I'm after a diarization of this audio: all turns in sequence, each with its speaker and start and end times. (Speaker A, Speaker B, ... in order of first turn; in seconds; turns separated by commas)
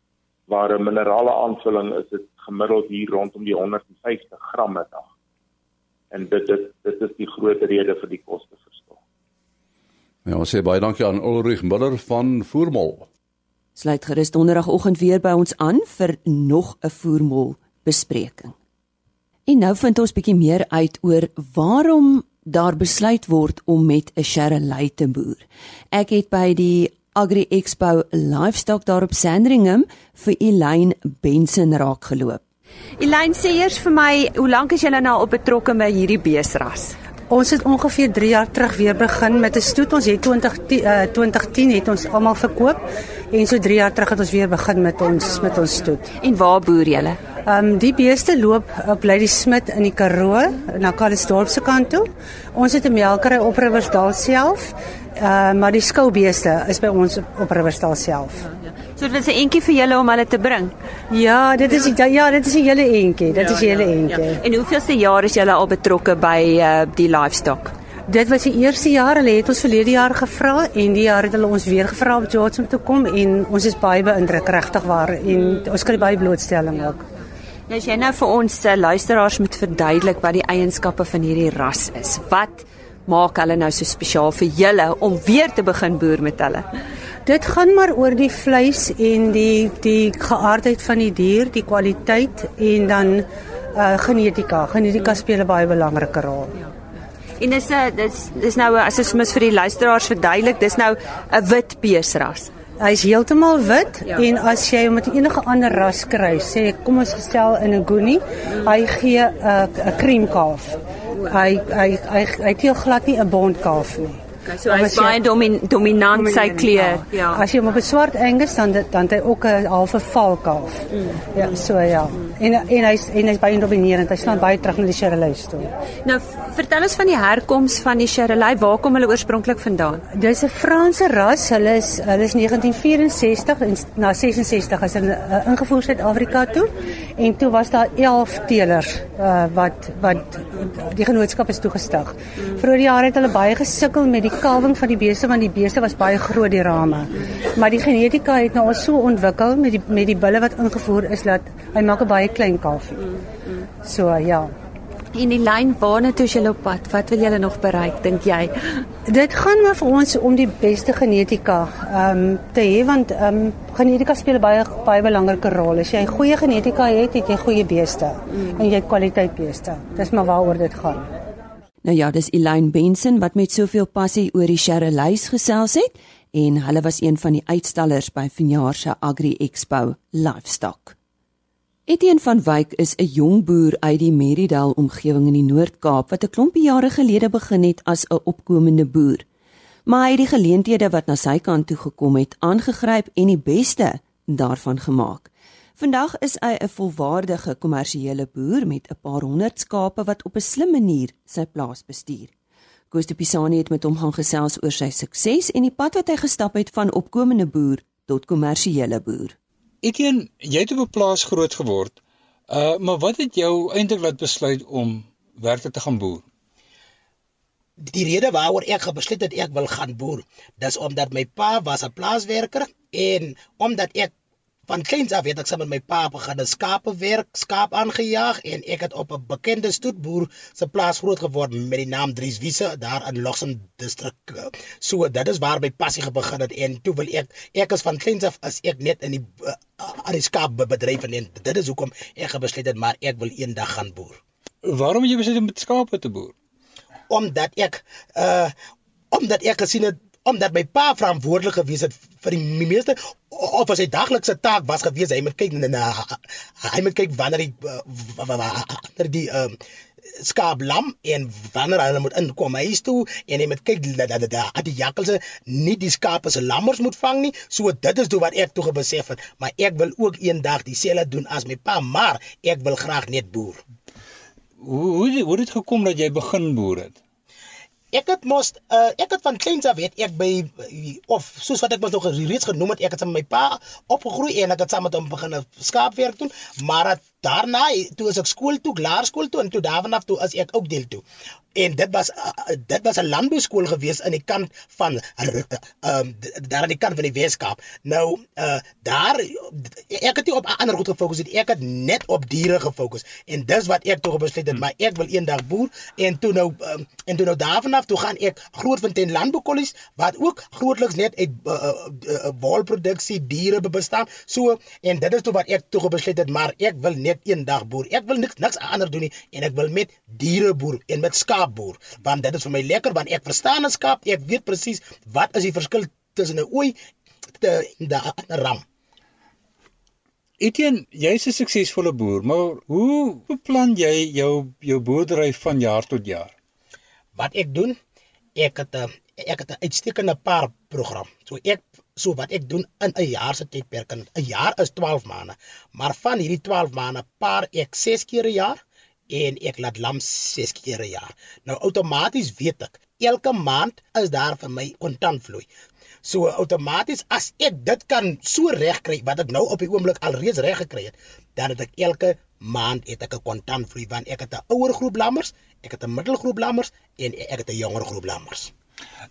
Speaker A: 0.5-5.1, Speaker A: 6.1-9.0, Speaker B: 10.2-13.1, Speaker C: 13.8-18.5, Speaker C: 19.5-32.4, Speaker D: 33.0-37.0, Speaker E: 37.3-46.1, Speaker D: 46.2-47.2, Speaker E: 47.4-58.4, Speaker D: 59.0-60.7, Speaker E: 61.1-64.4, Speaker D: 64.4-67.7, Speaker E: 68.1-77.0, Speaker D: 77.7-86.7, Speaker E: 87.2-96.6, Speaker D: 97.4-102.5, Speaker E: 102.8-115.2, Speaker D: 114.5-117.4, Speaker E: 116.1-125.7, Speaker D: 126.0-130.0, Speaker E: 130.1-153.1, Speaker E: 153.8-154.5, Speaker D: 155.1-158.5, Speaker E: 159.1-171.1, Speaker C: 171.8-181.0, Speaker C: 181.9-189.2, Speaker C: 189.9-202.3, Speaker C: 202.9-209.4, Speaker F: 209.8-216.3, Speaker G: 217.8-224.1, Speaker G: 224.7-244.2, Speaker F: 244.7-246.3, Speaker G: 247.1-248.5, Speaker G: 249.1-259.6, Speaker G: 260.2-273.6, Speaker F: 274.6-277.0, Speaker G: 277.9-291.0, Speaker G: 291.6-326.8, Speaker G: 327.4-328.6, Speaker F: 330.4-336.3, Speaker G: 337.2-337.8, Speaker G: 338.4-355.5, Speaker G: 356.0-368.5